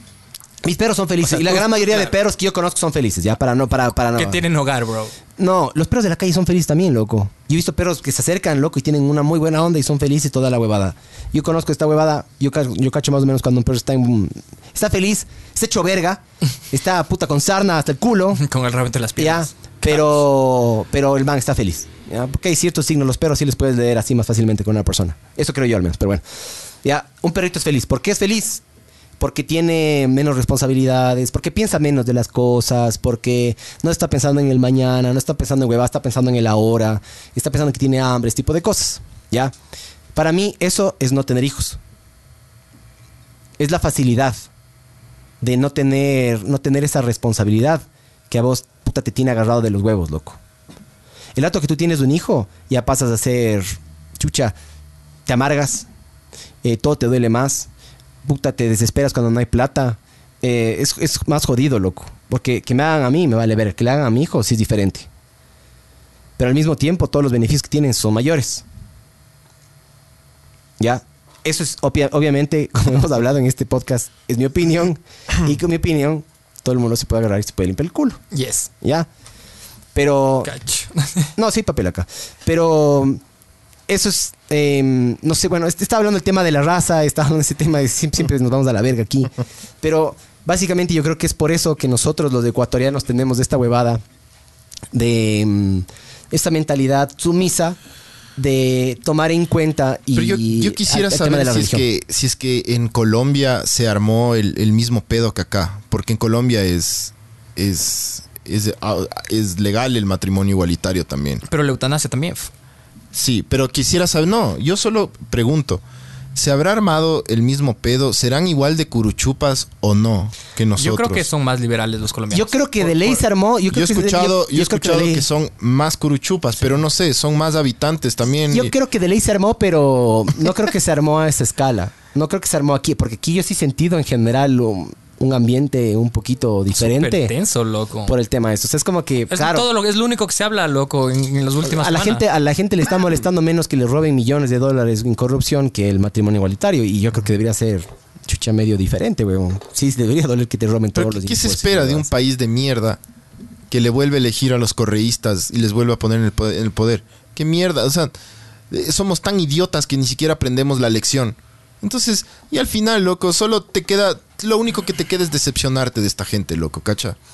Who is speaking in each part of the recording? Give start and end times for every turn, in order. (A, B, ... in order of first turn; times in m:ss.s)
0:00.6-0:04.4 A
0:04.2-0:05.1 B
0:05.4-0:18.4 A
0:18.4-0:19.5 B
0:19.2-0:26.2 A
0:26.8-0:28.6 A
0:29.2-0:39.5 A
0:40.1-0:41.8 A
0:43.6-0:44.5 A
0:45.4-0:50.4 A
0:51.3-0:54.5 A
0:55.2-0:55.9 A
0:56.6-0:57.7 A
0:58.2-1:05.1 A
1:06.4-1:08.6 A
1:10.8-1:18.2 A
1:18.3-1:18.7 B
1:18.8-1:19.1 A
1:19.9-1:20.5 A
1:20.4-1:21.3 B
1:21.4-1:23.2 A
1:23.9-1:34.0 A
1:34.9-1:37.8 A
1:38.4-1:41.8 A
1:40.1-1:51.4 C
1:51.4-1:52.5 B
1:53.1-1:55.8 C
1:56.3-2:01.2 C
2:00.8-2:03.2 B
2:02.3-2:05.2 A
2:03.7-2:08.7 C
2:08.5-2:17.3 A
2:16.8-2:18.1 B
2:18.0-2:19.6 A
2:19.3-2:22.2 B
2:21.6-2:32.1 A
2:31.0-2:33.0 C
2:33.7-2:38.1 C
2:38.7-2:47.2 C